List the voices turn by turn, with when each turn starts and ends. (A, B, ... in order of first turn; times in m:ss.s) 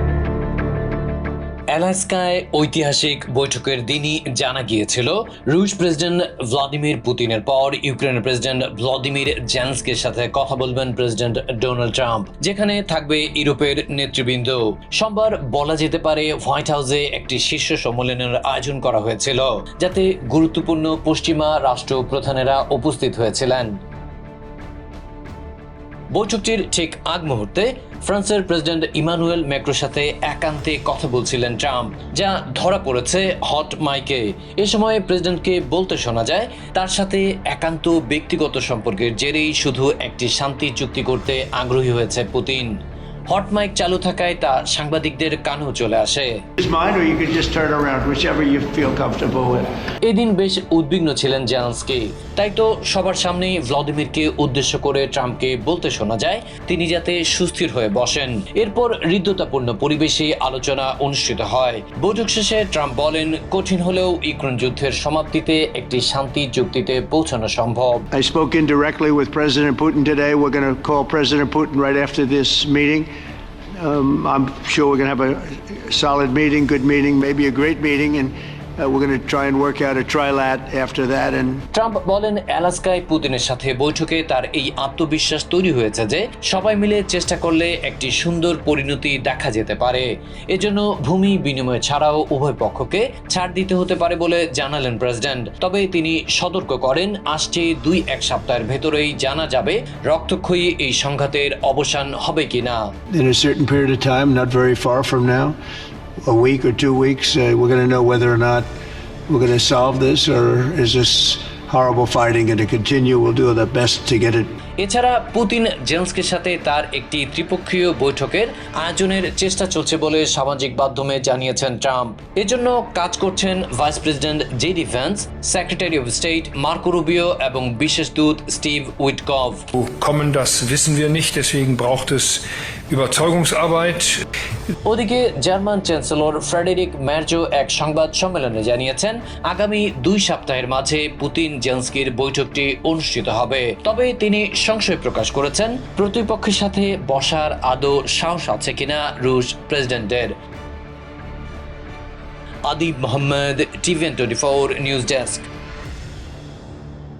0:01.7-0:23.7 A
0:26.1-0:42.7 A
0:43.3-0:46.3 A
0:46.6-0:49.7 B
0:50.0-1:08.1 A
1:08.1-1:13.1 B
1:13.8-1:21.6 B
1:21.7-1:42.8 A
1:43.1-1:45.6 B
1:46.2-1:48.7 B
1:49.3-1:54.5 B
1:54.8-2:09.7 A
2:09.8-2:14.1 C
2:14.8-2:30.3 A
2:32.7-2:35.5 A